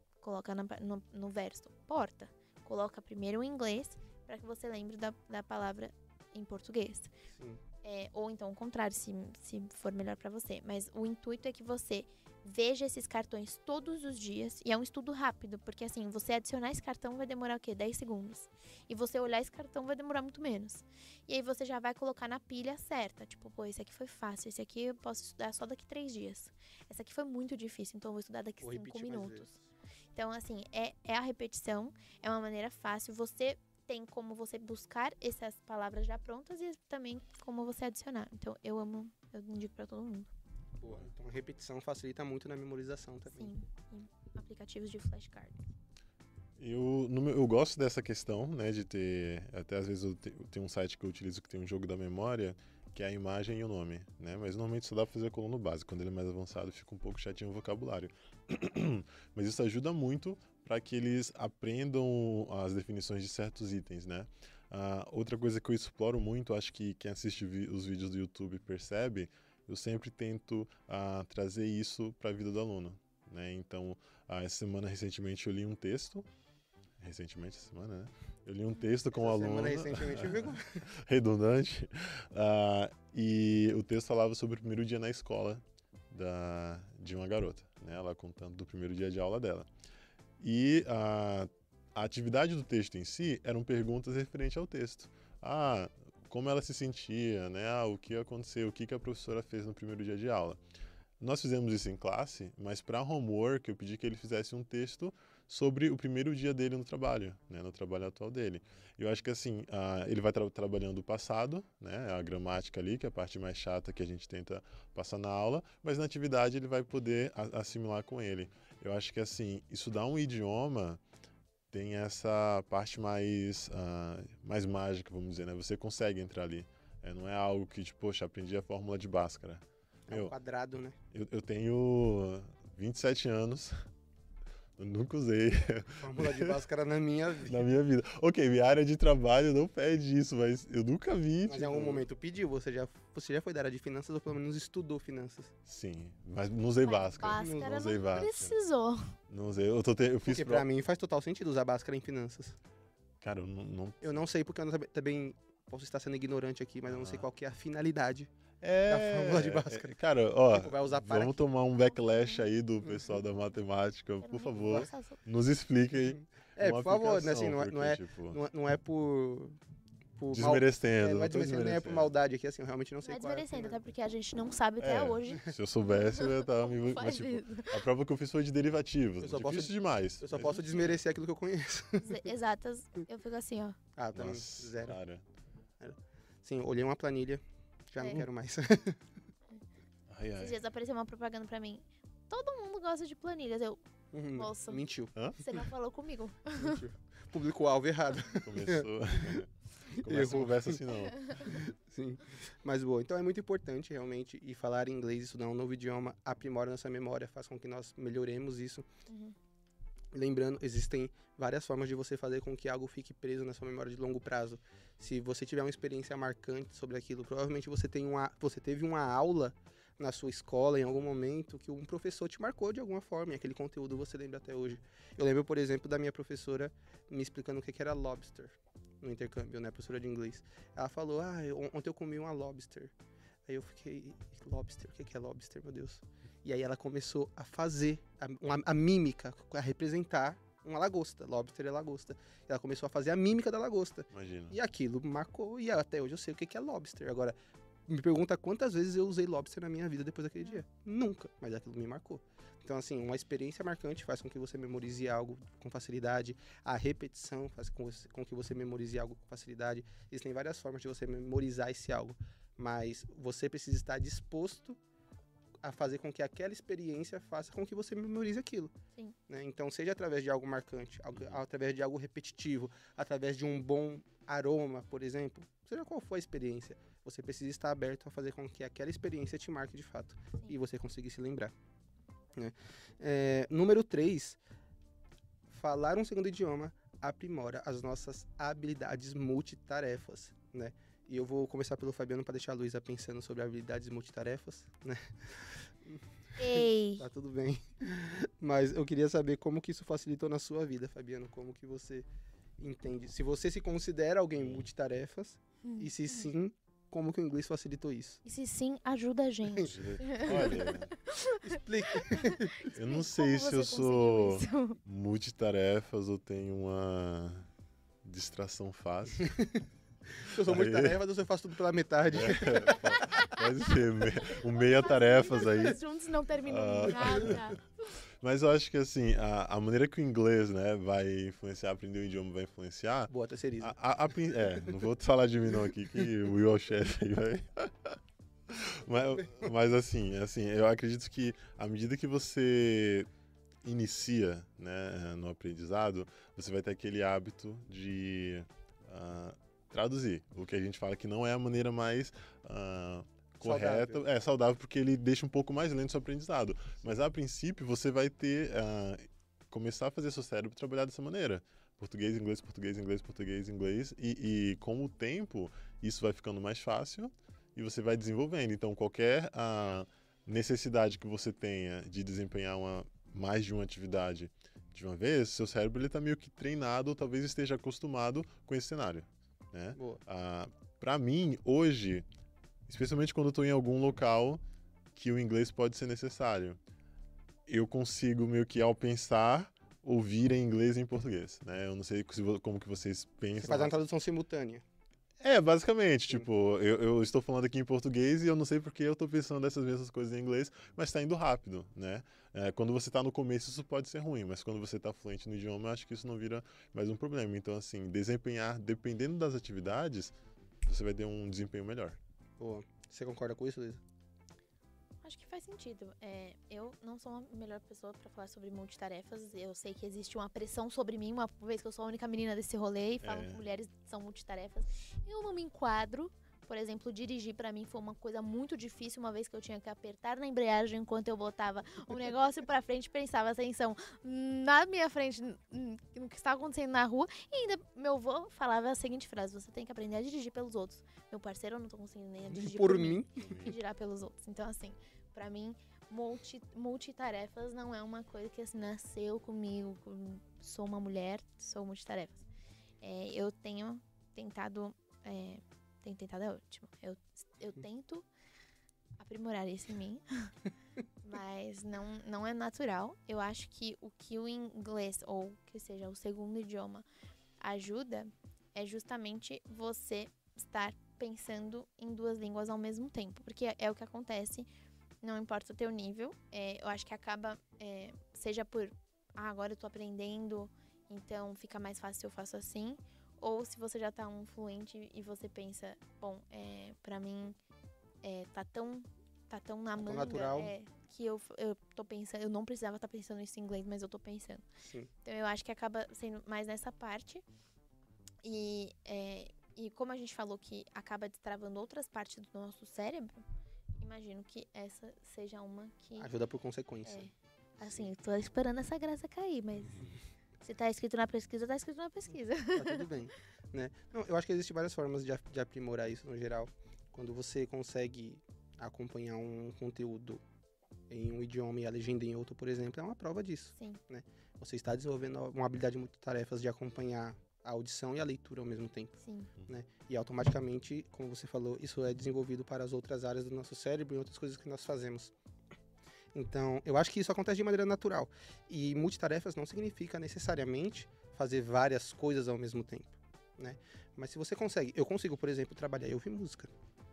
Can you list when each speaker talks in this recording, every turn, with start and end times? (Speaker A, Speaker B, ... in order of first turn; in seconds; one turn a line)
Speaker A: 0.2-7.1
Speaker B: 7.3-7.6
Speaker A: 7.8-29.5
Speaker B: 28.6-29.7
Speaker A: 30.1-40.3
Speaker B: 40.8-43.5
Speaker A: 43.3-45.6
Speaker C: 46.6-76.3
Speaker C: 77.0-89.7
Speaker B: 79.1-80.9
Speaker C: 90.4-100.6
Speaker C: 101.2-121.0
Speaker C: 121.7-130.3
Speaker B: 130.1-131.0
Speaker C: 131.1-133.8
Speaker C: 134.8-136.6
Speaker B: 136.0-137.6
Speaker C: 137.5-142.0
Speaker B: 141.4-145.5
Speaker C: 145.7-148.6
Speaker A: 146.8-149.1
Speaker B: 147.2-147.7
Speaker C: 149.3-150.6
Speaker B: 150.2-152.6
Speaker C: 153.2-154.1
Speaker B: 154.0-158.3
Speaker C: 156.9-157.2
Speaker C: 158.6-168.4
Speaker B: 158.9-161.4
Speaker A: 162.0-162.4
Speaker A: 164.2-165.2
Speaker B: 166.6-169.6
Speaker B: 170.2-173.8
Speaker C: 170.3-172.1
Speaker A: 173.0-177.8
Speaker C: 174.8-180.9
Speaker B: 179.2-182.3
Speaker A: 182.0-183.8
Speaker B: 184.0-185.0
Speaker C: 184.1-185.2
Speaker B: 185.8-189.0
Speaker C: 190.1-190.6
Speaker A: 190.4-193.8
Speaker B: 194.1-195.1
Speaker A: 194.3-196.8
Speaker C: 195.1-195.6
Speaker B: 196.6-199.3
Speaker C: 198.4-201.5
Speaker B: 199.9-200.8
Speaker A: 200.9-201.5
Speaker B: 201.4-208.8
Speaker A: 209.1-209.3
Speaker B: 210.1-232.9
Speaker B: 233.5-247.3
Speaker C: 244.1-244.6
Speaker B: 247.9-264.8
Speaker B: 265.6-268.7
Speaker B: 269.3-281.5
Speaker B: 282.4-284.4
Speaker B: 285.5-302.1
Speaker A: 296.4-297.0
Speaker B: 302.6-308.2
Speaker C: 304.4-304.7
Speaker A: 305.6-306.3
Speaker A: 308.2-314.8
Speaker C: 309.6-310.9
Speaker B: 311.2-312.7
Speaker C: 312.7-317.5
Speaker C: 318.0-319.3
Speaker B: 319.2-323.2
Speaker C: 320.4-321.0
Speaker C: 322.1-325.8
Speaker A: 322.9-323.7
Speaker A: 324.6-327.6
Speaker C: 326.4-327.5
Speaker B: 326.9-327.4
Speaker C: 328.2-343.1
Speaker B: 333.1-333.8
Speaker B: 334.3-334.8
Speaker C: 343.6-382.0
Speaker B: 353.4-354.0
Speaker B: 379.7-380.0
Speaker C: 382.7-384.4
Speaker C: 384.9-386.6
Speaker C: 387.5-393.8
Speaker B: 393.4-394.6
Speaker C: 395.2-410.1
Speaker C: 410.6-412.0
Speaker B: 412.4-413.8
Speaker A: 415.0-452.2
Speaker C: 423.0-423.4
Speaker B: 442.2-443.3
Speaker C: 443.2-443.6
Speaker A: 452.8-458.1
Speaker A: 459.0-460.3
Speaker A: 461.0-466.8
Speaker A: 467.4-474.5
Speaker A: 475.0-487.4
Speaker A: 488.0-494.4
Speaker B: 489.8-490.5
Speaker B: 494.6-494.9
Speaker A: 495.0-497.2
Speaker A: 498.2-503.2
Speaker A: 503.8-506.1
Speaker B: 506.0-507.1
Speaker A: 506.8-509.9
Speaker B: 507.6-507.9
Speaker A: 510.4-512.9
Speaker B: 512.5-520.2
Speaker B: 520.9-528.9
Speaker A: 529.0-529.3
Speaker B: 529.5-535.1
Speaker B: 536.1-546.5